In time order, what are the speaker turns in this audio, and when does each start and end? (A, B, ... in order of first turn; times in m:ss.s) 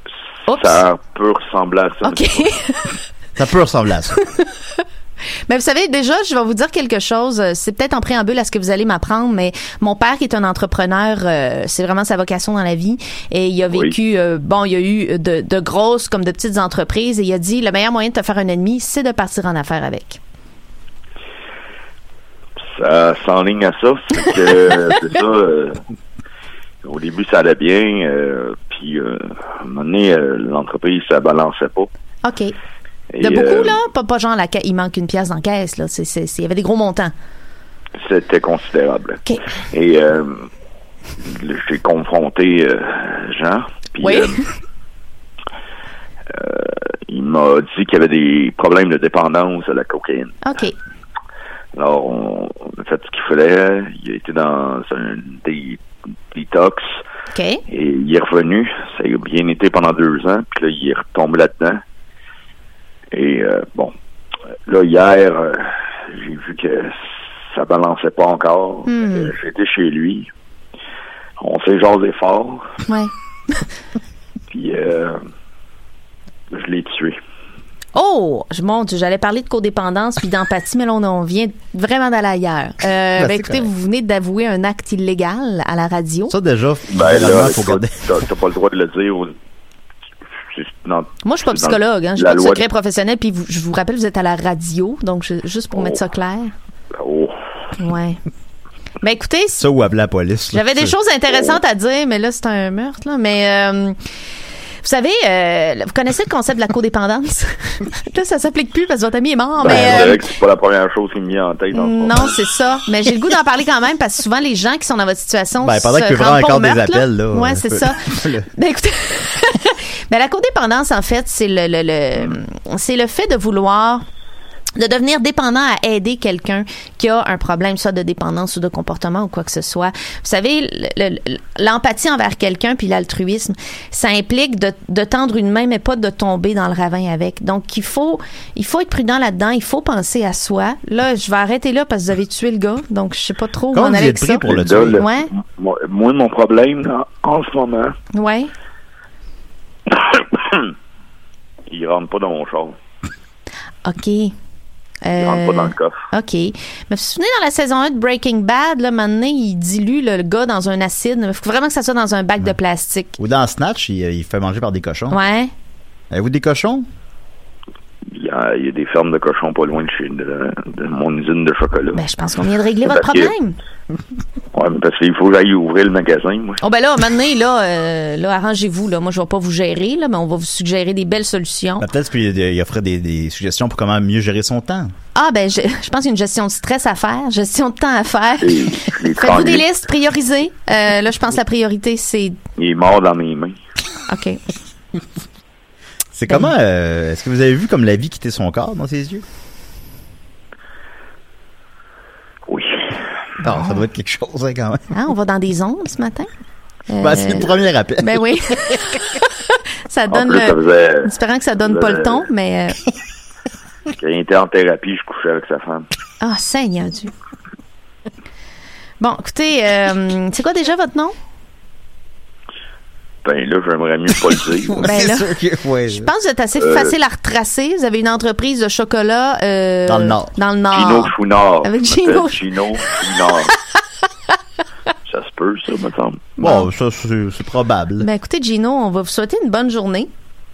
0:00.5-0:00.8 A
0:00.5-0:02.5 B
0:02.1-0:02.8 A
0:03.4-0:04.2 C
0:05.5-0:20.2 A
0:22.7-0:25.8 B
0:26.8-0:31.9 B
0:32.2-0:32.5 A
0:33.1-0:33.8 B
0:33.2-0:37.1 A
0:38.0-0:40.5 B
0:41.2-0:44.4 B
0:44.0-0:44.4 A
0:46.3-0:50.4 B
0:50.4-0:50.8 A
0:51.8-0:55.8 B
0:56.3-0:57.0 B
0:57.3-0:57.6 A
0:57.7-1:01.8 B
1:03.1-1:04.0 B
1:04.7-1:10.3 B
1:08.9-1:09.3 A
1:11.4-1:12.7 B
1:14.5-1:15.2 B
1:16.5-1:17.2 B
1:18.0-1:26.3 A
1:23.2-1:23.7 C
1:26.3-1:28.2 C
1:26.9-1:29.4 B
1:30.5-1:32.6 B
1:31.2-1:36.5 A
1:36.9-1:37.4 B
1:37.8-1:38.2 A
1:39.0-1:39.6 A
1:39.6-1:41.0 C
1:40.5-1:44.0 A
1:44.8-1:50.2 A
1:49.6-1:52.4 B
1:49.6-1:50.2 C
1:51.7-1:58.0 A
1:55.6-1:58.5 C
1:58.5-2:04.0 A
2:04.8-2:25.3 A
2:23.7-2:25.0 C
2:24.5-2:28.0 B
2:28.1-2:28.5 A
2:29.9-2:30.7 B
2:31.7-2:32.8 B
2:33.8-2:34.4 A
2:35.0-2:43.2 A
2:35.2-2:36.0 B
2:43.2-2:45.2 C
2:45.1-2:45.5 A
2:46.1-2:46.8 C
2:48.1-2:52.0 B
2:51.9-2:53.6 A
2:52.8-2:53.3 B
2:54.5-2:56.6 B
2:56.6-3:01.8 A
3:01.8-3:04.9 C
3:05.2-3:12.4 A
3:08.4-3:09.6 B
3:12.6-3:13.6 B
3:14.1-3:14.4 A
3:16.2-3:19.2 C
3:22.5-3:23.0 B
3:23.4-3:24.9 C
3:24.9-3:26.3 A
3:26.9-3:29.0 A
3:27.0-3:28.3 C
3:29.9-3:32.8 A
3:30.1-3:32.3 B
3:34.0-3:35.9 B
3:36.2-3:37.1 A
3:39.0-3:41.2 A
3:43.2-3:44.9 B
3:44.7-3:46.1 C
3:44.8-3:45.3 A
3:45.9-3:52.4 A
3:46.6-3:46.9 B
3:49.9-3:50.3 C
3:50.7-3:53.5 B
3:55.1-3:56.3 B
3:56.4-3:58.1 C
3:56.4-3:56.7 A
3:58.0-4:00.1 A